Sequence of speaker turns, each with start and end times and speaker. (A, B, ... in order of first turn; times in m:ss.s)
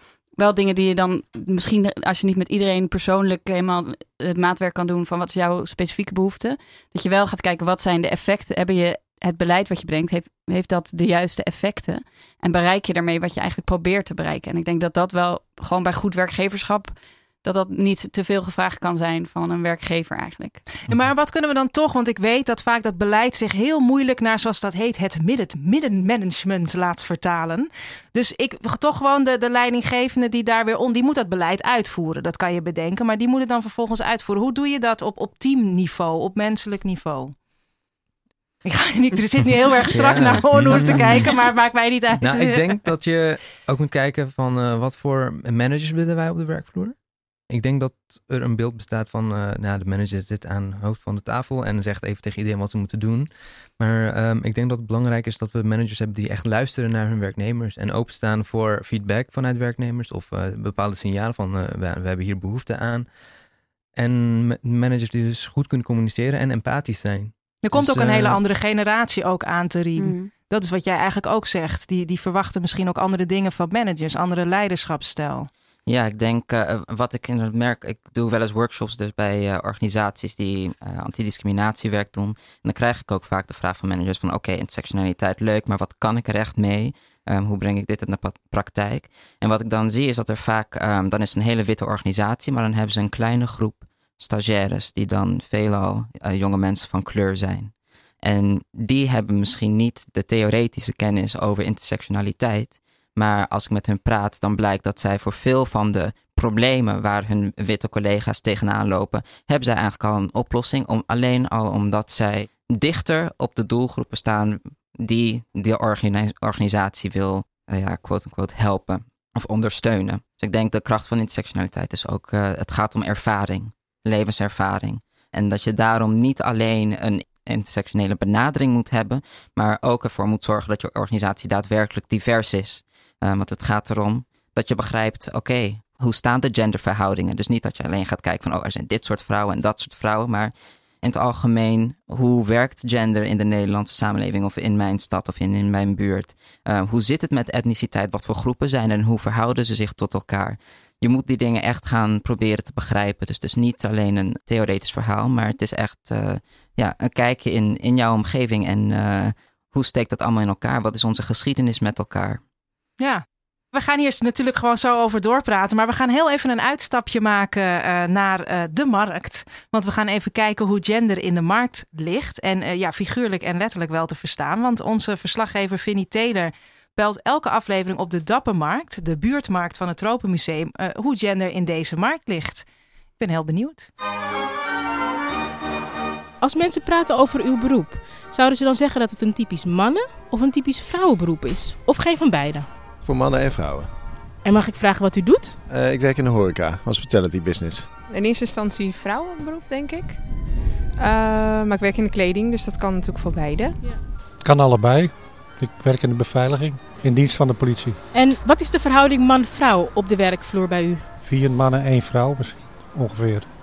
0:00.3-0:20.6 A
0:20.9-0:37.4 B
0:38.6-0:42.9 B
0:39.9-0:41.5 C
0:42.2-0:47.0 C
0:47.5-1:03.1 C
1:04.0-1:08.4 C
1:07.6-1:15.5 B
1:10.0-1:10.3 A
1:15.9-2:42.4 D
2:43.0-3:02.7 B
3:03.2-3:03.9 B
3:06.4-3:12.7 E
3:13.0-3:13.9 F
3:14.4-3:15.6 E
3:15.7-3:17.9 F
3:18.1-3:23.8 G
3:24.4-3:28.0 H
3:28.1-3:31.1 E
3:31.2-3:33.5 H